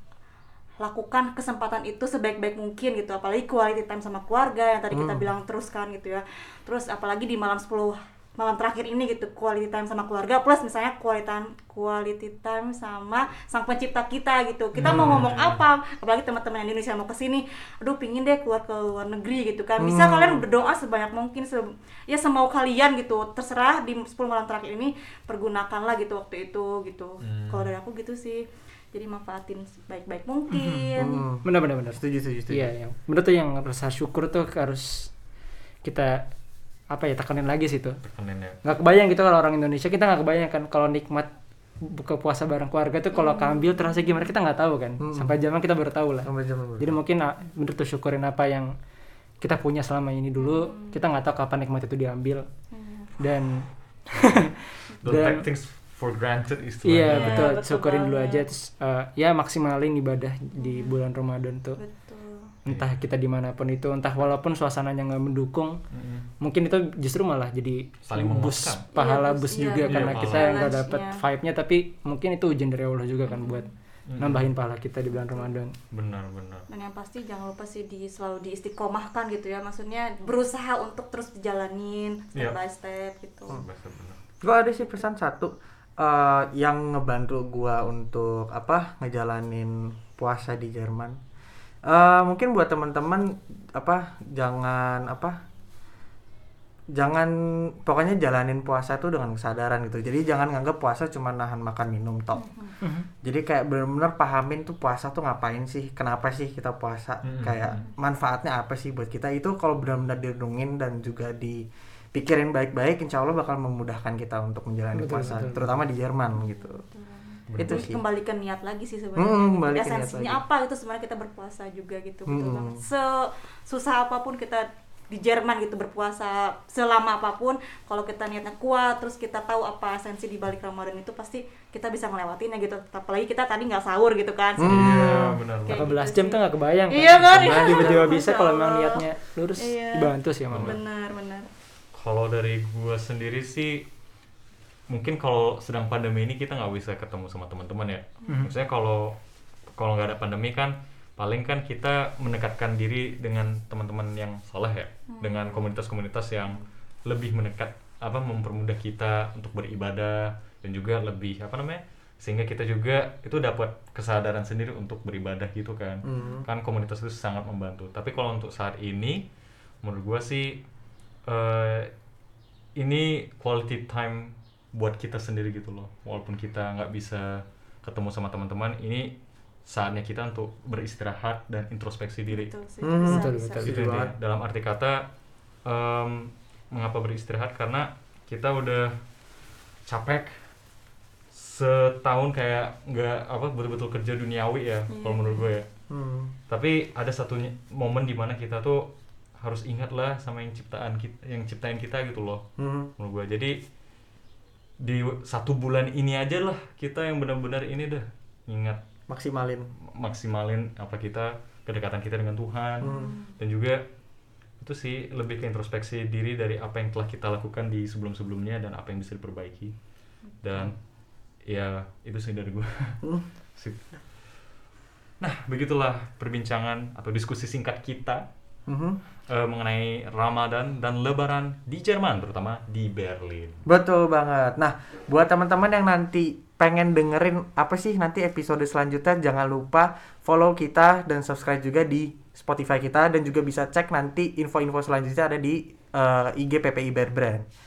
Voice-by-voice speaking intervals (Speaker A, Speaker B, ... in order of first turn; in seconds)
Speaker A: 0.8-31.2, 43.1-44.3, 50.4-51.0, 52.7-53.1, 57.1-58.5, 60.6-61.0, 61.8-62.5, 68.9-71.2, 73.3-73.7, 75.1-75.5, 76.7-83.6, 102.3-102.7, 116.3-135.1, 135.6-139.0, 139.6-141.5, 155.1-155.7, 166.1-166.4, 182.3-183.7, 194.9-195.5, 212.8-213.3
Speaker B: 4.9-5.2, 14.8-15.2, 19.8-20.4, 31.0-32.7, 45.0-45.3, 46.2-47.0, 84.4-91.2, 91.9-95.3, 96.9-102.5, 103.2-116.8, 117.5-118.0, 119.2-120.4, 122.3-122.8, 134.6-135.3, 137.3-138.1, 166.0-166.5, 182.8-184.1, 195.9-196.3, 202.6-202.9, 209.1-209.7, 212.8-213.1, 228.7-229.0, 233.7-247.4
Speaker C: 14.8-15.6, 27.2-27.7, 38.0-38.6, 55.0-57.5, 62.6-62.9, 65.9-66.2, 68.0-68.8, 69.8-70.7, 74.1-74.5, 75.9-76.7, 83.5-84.2, 107.2-107.8, 117.5-117.8, 134.7-135.9, 140.5-140.8, 141.9-143.9, 144.9-149.2, 149.8-169.3, 169.8-170.6, 171.2-171.9, 172.8-182.5, 183.6-185.1, 185.6-188.9, 189.9-190.3, 191.3-195.7, 196.5-202.4, 203.0-203.6, 204.8-208.8, 209.9-213.8, 214.6-219.7, 220.4-220.8, 221.4-223.8, 225.2-228.2, 229.3-233.6
Speaker D: 30.5-35.1, 35.8-36.2, 36.9-38.0, 38.6-41.3, 41.8-48.7, 49.4-52.5, 53.2-55.4, 56.8-61.8, 62.6-65.8, 66.4-75.7, 114.9-115.6, 135.7-140.8, 183.0-183.7